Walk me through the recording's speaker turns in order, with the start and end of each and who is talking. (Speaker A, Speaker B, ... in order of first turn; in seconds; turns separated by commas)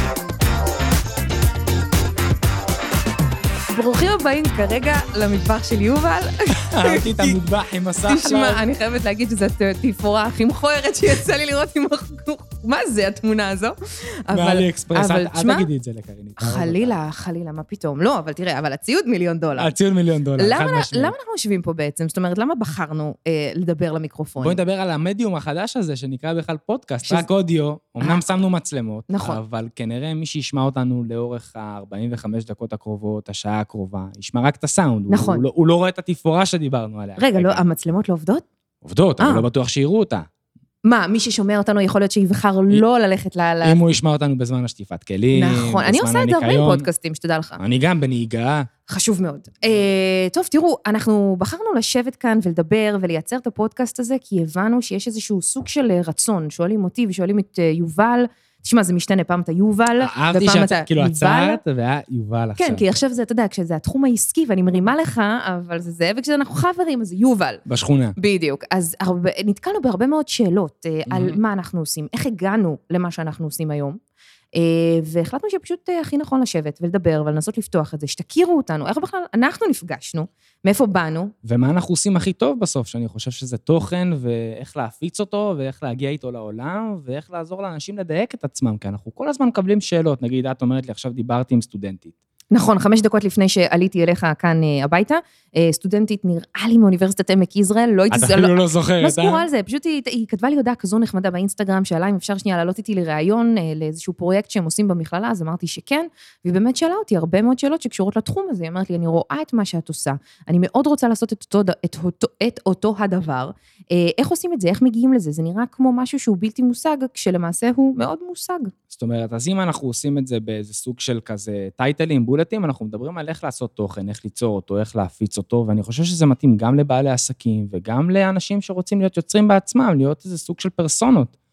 Speaker A: 3.7-7.4, Speaker B: 6.6-8.6, Speaker A: 8.1-15.7, Speaker B: 14.3-16.9, Speaker A: 16.4-19.7, Speaker B: 19.6-21.1, Speaker A: 20.4-24.6, Speaker B: 24.4-37.6, Speaker A: 29.1-29.4, Speaker A: 35.1-35.4, Speaker A: 37.2-38.5, Speaker B: 38.8-40.3, Speaker A: 39.2-39.5, Speaker A: 40.8-43.8, Speaker B: 43.6-46.9, Speaker A: 45.3-47.6, Speaker B: 47.6-48.7, Speaker A: 48.9-61.6, Speaker B: 60.0-62.8, Speaker A: 62.6-67.6, Speaker B: 67.7-68.2, Speaker A: 68.2-74.0, Speaker B: 71.1-71.4, Speaker A: 74.5-81.3, Speaker B: 81.4-92.1, Speaker A: 92.5-118.7, Speaker B: 98.1-99.5, Speaker B: 118.9-131.3